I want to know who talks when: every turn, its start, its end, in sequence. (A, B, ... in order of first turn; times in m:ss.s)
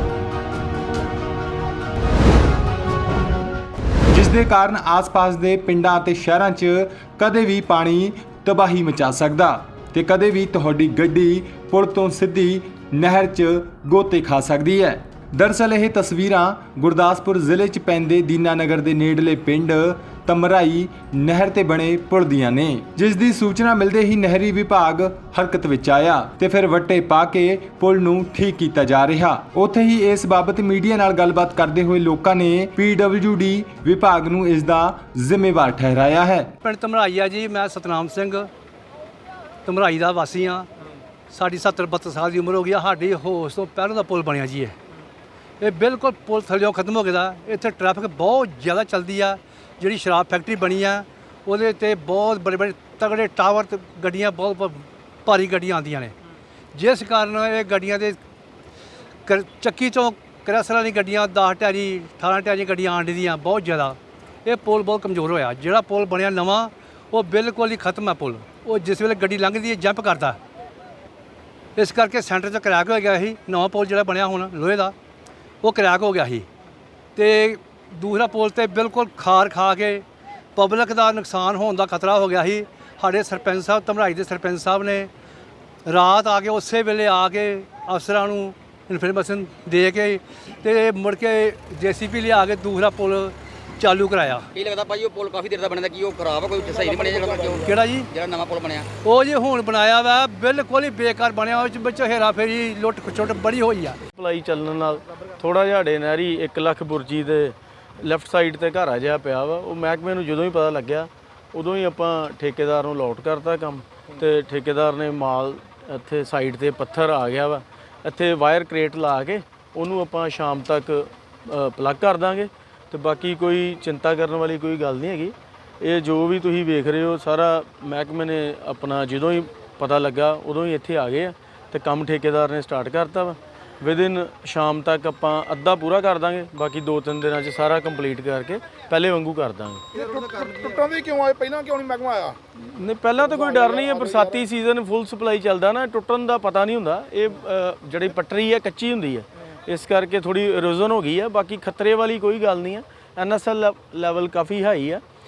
0:04.1-0:36.5 A
0:36.6-0:38.5 B
0:39.6-0:40.7 B
0:41.3-0:44.8 B
0:45.6-0:56.1 B
0:56.7-0:58.2 B
0:59.2-1:10.4 B
1:11.8-1:14.9 B
1:15.6-1:16.5 B
1:17.2-1:20.0 B
1:20.6-1:25.1 B
1:25.8-1:34.5 B
1:34.5-1:38.9 C
1:36.6-1:37.8 D
1:37.6-1:38.1 B
1:39.0-1:44.0 B
1:44.1-2:19.8 E
2:19.9-2:22.4 D
2:22.6-2:35.0 E
2:23.2-2:24.4 D